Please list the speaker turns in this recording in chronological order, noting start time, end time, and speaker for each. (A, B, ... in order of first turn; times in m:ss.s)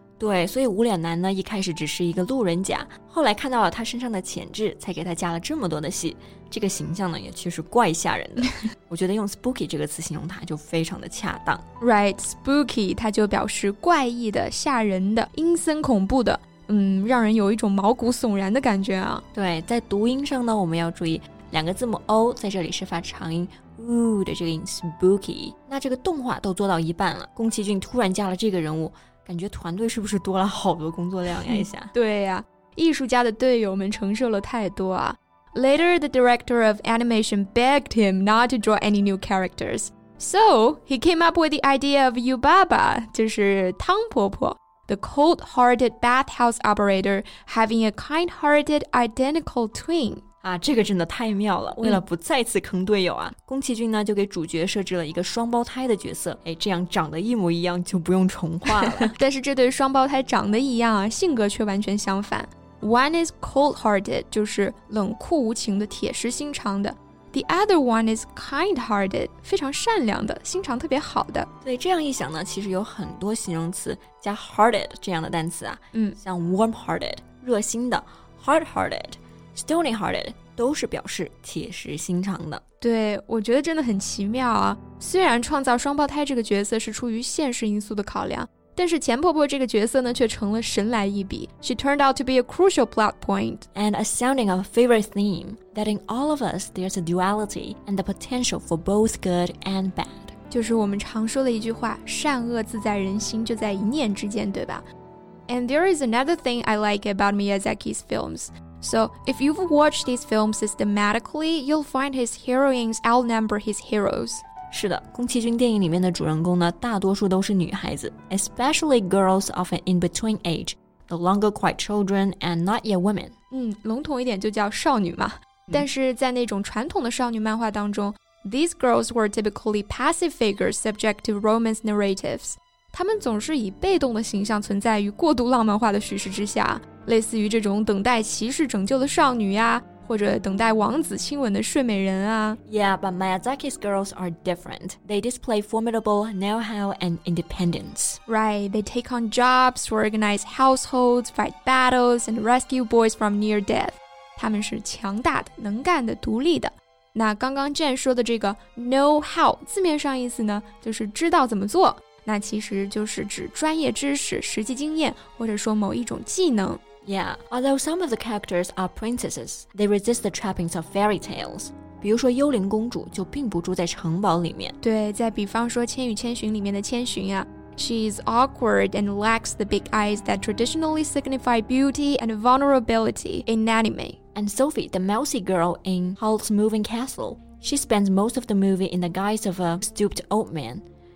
0:00.2-0:11.6 A
0:11.8-0:19.2 B
0:19.3-0:31.9 A
0:31.5-0:50.2 B
0:50.4-0:59.1 A
0:59.0-1:11.5 B
1:11.6-1:22.6 A
1:15.9-1:16.2 B
1:22.8-1:33.6 B
1:33.7-1:40.3 A
1:40.5-1:44.8 B
1:45.5-1:54.4 B
1:54.7-2:03.3 A
2:03.5-2:22.6 B
2:22.6-2:28.2 A
2:28.3-2:46.8 B
2:47.0-2:54.8 A
2:54.8-3:04.2 B
3:04.3-3:10.8 A